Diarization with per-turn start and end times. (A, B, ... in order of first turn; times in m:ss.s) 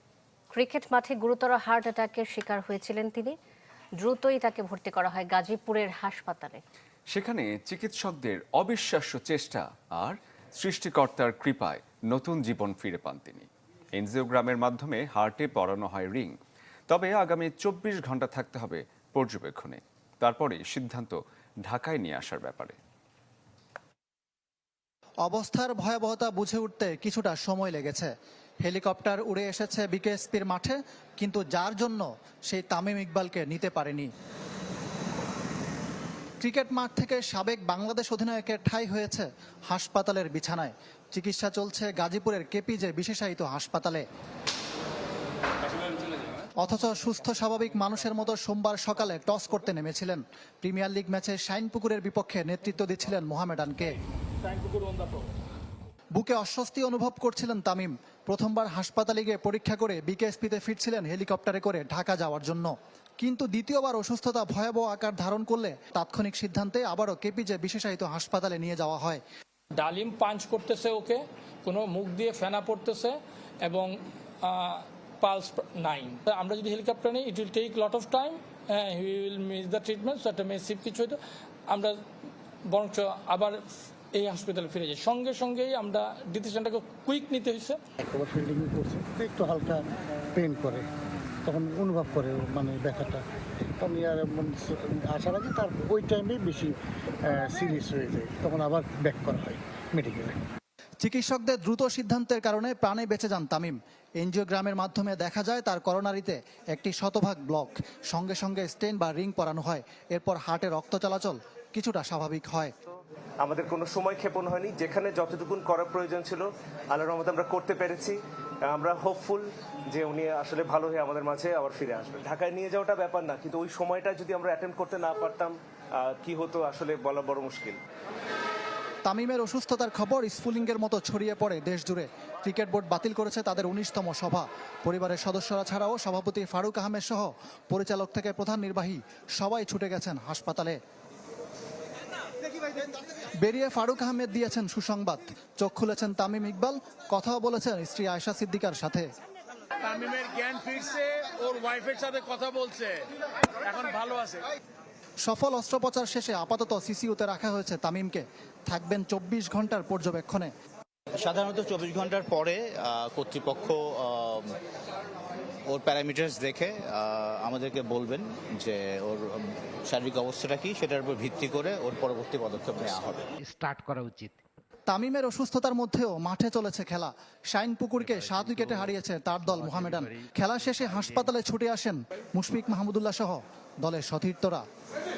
0:00.5-0:03.3 A
0:04.0-0:06.6 A
0:07.1-0:16.3 B
0:16.9-0:22.8 B
0:25.3-0:28.1 C
0:28.6-0:34.1 C
0:36.4-0:44.0 C
0:46.6-0:54.0 C
0:54.4-0:55.3 D
0:56.2-1:09.2 C
1:09.8-1:13.9 D
1:14.4-1:21.2 D
1:21.7-1:22.0 D
1:22.6-1:23.6 D
1:24.1-1:27.8 D
1:28.0-1:29.8 E
1:30.3-1:30.8 E
1:31.4-1:33.2 E
1:33.8-1:36.8 E
1:37.3-1:40.4 E
1:41.0-1:52.7 C
1:52.9-2:07.8 F
2:09.0-2:20.8 C
2:23.4-2:29.0 C
2:29.8-2:33.0 G
2:33.6-2:34.4 G
2:35.2-2:40.5 C
2:41.2-2:44.5 H
2:45.7-2:53.3 H
2:53.4-2:54.4 I
2:54.9-3:04.6 C
2:58.1-2:58.9 I
2:59.4-3:00.2 I
3:01.0-3:01.2 I